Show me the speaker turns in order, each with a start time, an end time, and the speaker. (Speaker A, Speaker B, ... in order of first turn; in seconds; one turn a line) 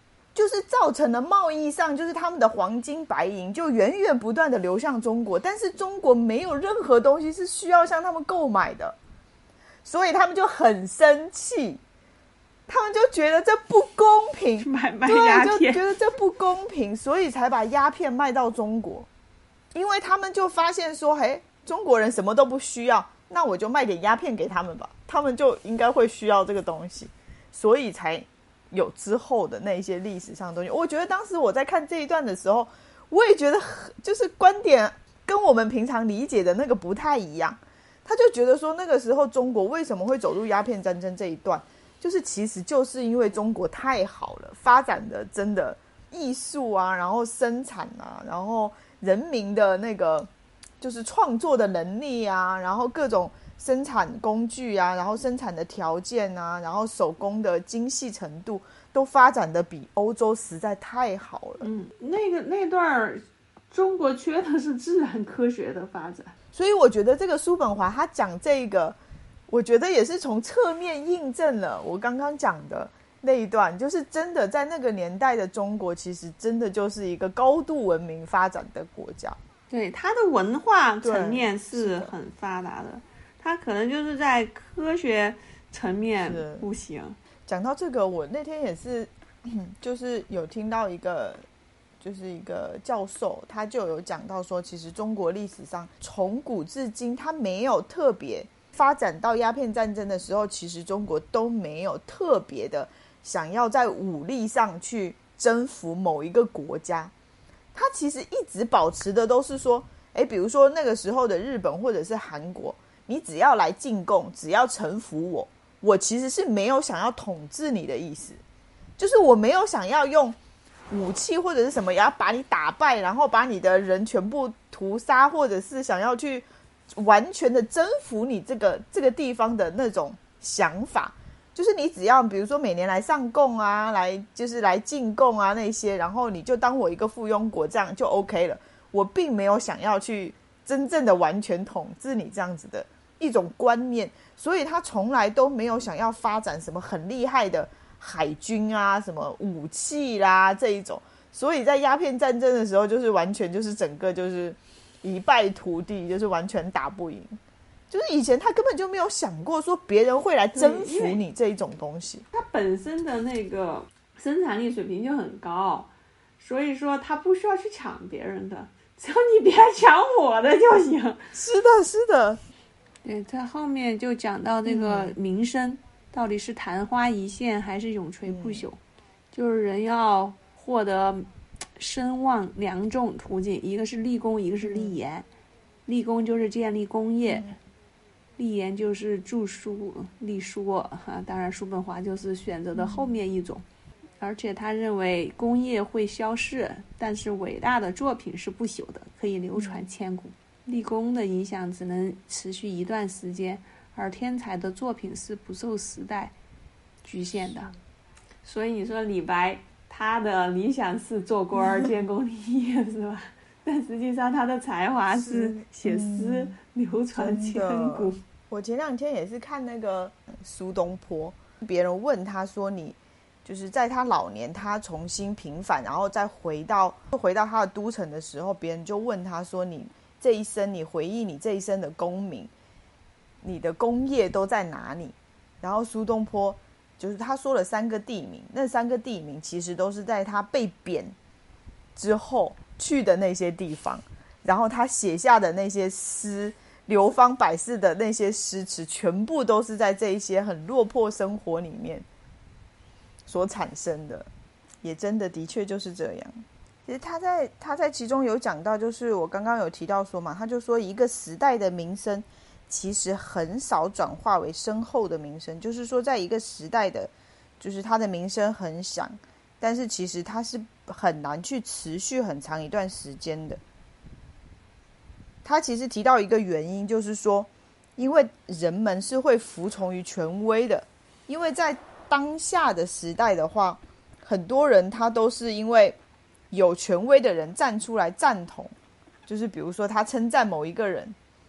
Speaker A: 0.3-8.9
Speaker A: 9.8-11.8
Speaker A: 12.7-19.1
Speaker B: 14.6-15.8
Speaker A: 19.7-61.7
Speaker B: 61.6-66.3
Speaker A: 66.5-69.0
Speaker A: 69.5-79.4
Speaker B: 79.7-87.2
Speaker A: 81.0-82.1
Speaker A: 86.2-86.7
Speaker A: 87.5-91.4
Speaker A: 92.0-107.1
Speaker A: 107.7-118.4
Speaker A: 119.0-120.3
Speaker A: 120.9-157.4
Speaker A: 157.9-162.2
Speaker B: 160.5-161.2
Speaker B: 162.3-171.2
Speaker A: 171.3-172.4
Speaker B: 173.0-178.8
Speaker A: 174.7-175.1
Speaker A: 178.3-178.6
Speaker B: 179.3-185.2
Speaker A: 184.6-185.0
Speaker B: 185.8-187.5
Speaker B: 188.4-193.6
Speaker A: 192.8-193.1
Speaker B: 194.2-206.3
Speaker A: 199.5-199.8
Speaker B: 207.0-207.7
Speaker B: 208.4-218.2
Speaker A: 215.1-216.5
Speaker A: 217.1-232.5
Speaker A: 233.4-241.1
Speaker A: 241.9-252.1
Speaker A: 253.3-254.3
Speaker A: 254.8-273.6
Speaker A: 275.4-286.0
Speaker A: 286.5-288.7
Speaker A: 289.3-291.1